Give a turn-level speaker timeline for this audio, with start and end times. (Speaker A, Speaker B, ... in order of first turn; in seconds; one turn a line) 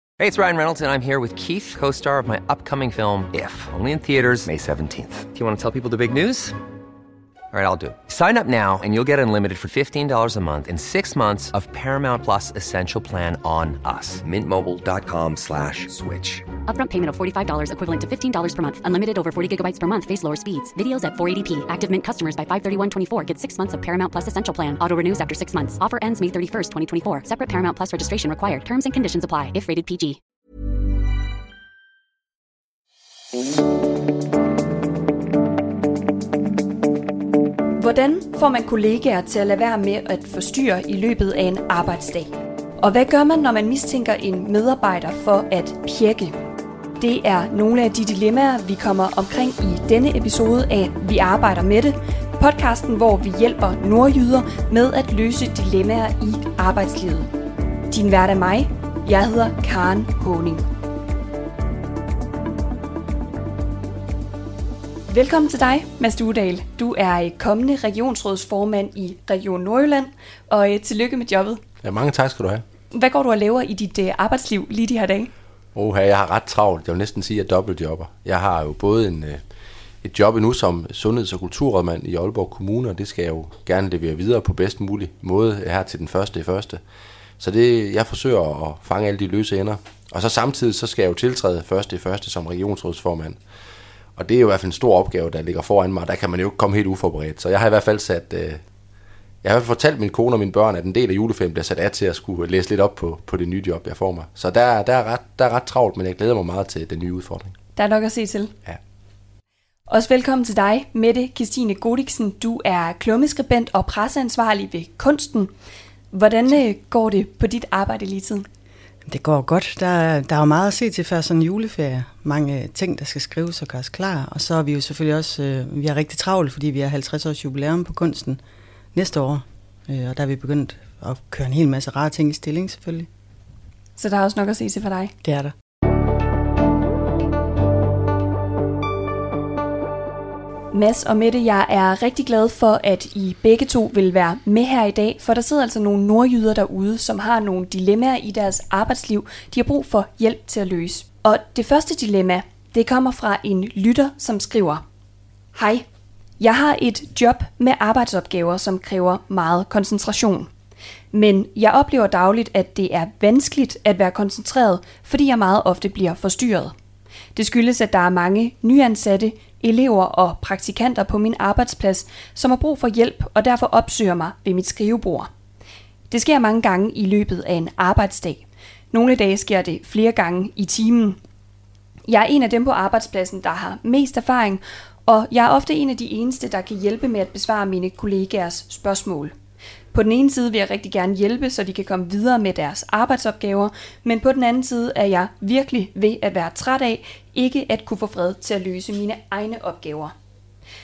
Speaker A: 0.2-6.6
Speaker A: 7.5-16.5
Speaker B: 16.7-30.2
Speaker C: 37.8-46.4
Speaker C: 47.0-57.3
Speaker C: 57.9-60.7
Speaker C: 65.1-71.6
Speaker D: 71.8-72.6
Speaker C: 72.9-75.3
Speaker D: 75.8-79.4
Speaker D: 80.0-86.8
Speaker D: 87.4-93.4
Speaker D: 94.2-98.6
Speaker D: 99.4-107.6
Speaker C: 107.8-108.5
Speaker C: 109.9-115.5
Speaker C: 116.1-118.5
Speaker E: 119.1-128.4
Speaker E: 128.9-133.1
Speaker C: 134.0-135.2
Speaker E: 135.2-135.5
Speaker C: 140.7-154.8
Speaker C: 155.6-155.9
Speaker C: 156.4-160.5
Speaker C: 161.1-166.7
Speaker C: 167.3-175.3
Speaker C: 176.1-181.2
Speaker C: 182.1-189.3
Speaker C: 189.9-200.1